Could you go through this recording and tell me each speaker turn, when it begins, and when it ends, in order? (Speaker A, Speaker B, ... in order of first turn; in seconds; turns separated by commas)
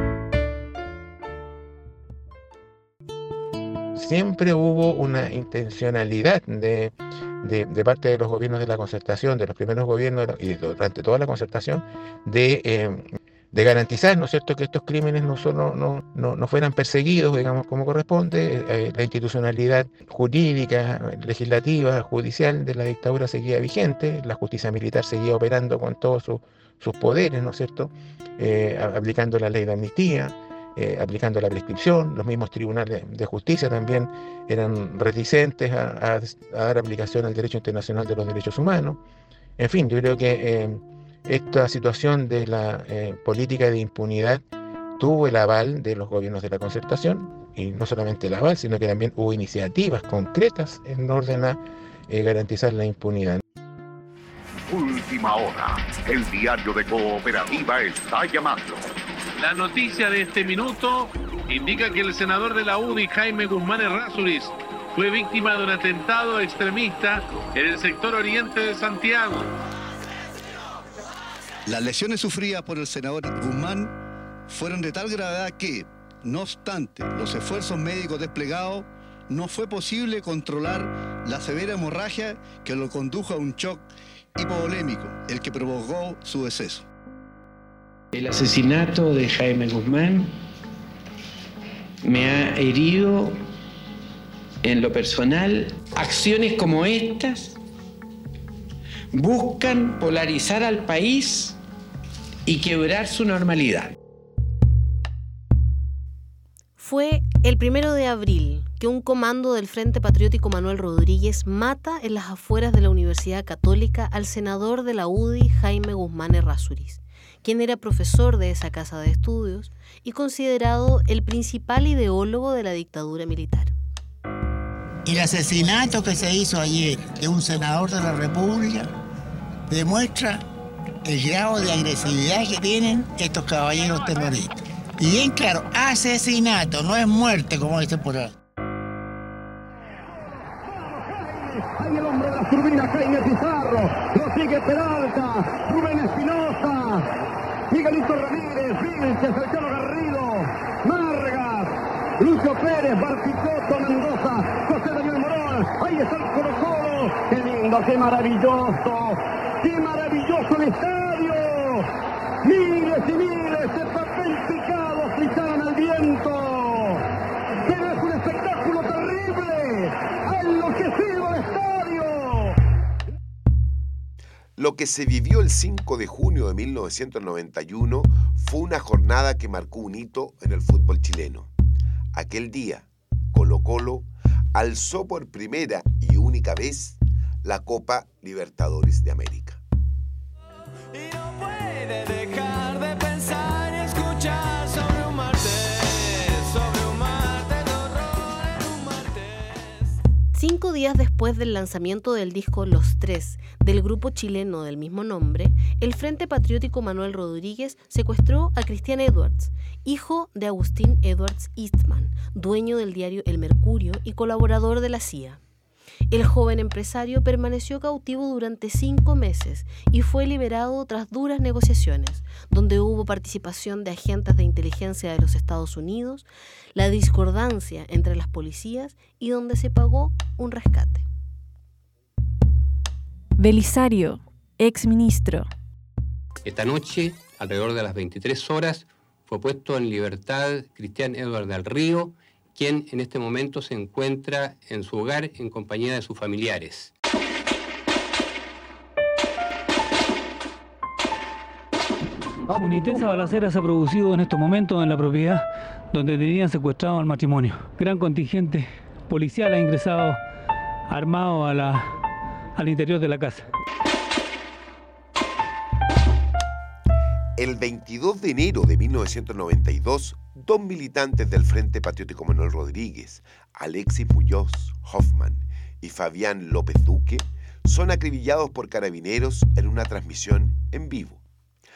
Speaker A: 4.0-39.0, Speaker A: 39.6-44.4, Speaker A: 45.0-53.4, Speaker B: 54.7-58.8, Speaker C: 59.4-69.5, Speaker D: 71.7-73.9, Speaker D: 74.5-83.8, Speaker D: 84.4-86.9, Speaker E: 88.1-90.4, Speaker E: 92.0-93.4, Speaker E: 94.6-97.6, Speaker E: 99.1-101.6, Speaker E: 102.5-104.0, Speaker F: 106.8-123.7, Speaker G: 125.1-128.9, Speaker G: 129.7-130.4, Speaker G: 131.0-138.3, Speaker H: 140.5-147.1, Speaker H: 147.7-161.9, Speaker H: 162.4-167.0, Speaker H: 167.6-172.5, Speaker I: 174.6-181.5, Speaker I: 182.1-189.6, Speaker J: 191.7-193.0, Speaker F: 200.3-215.4, Speaker F: 216.1-231.1, Speaker K: 233.4-235.5, Speaker L: 236.4-246.9, Speaker J: 252.5-260.2, Speaker J: 260.9-261.9, Speaker J: 262.6-263.5, Speaker I: 267.4-281.2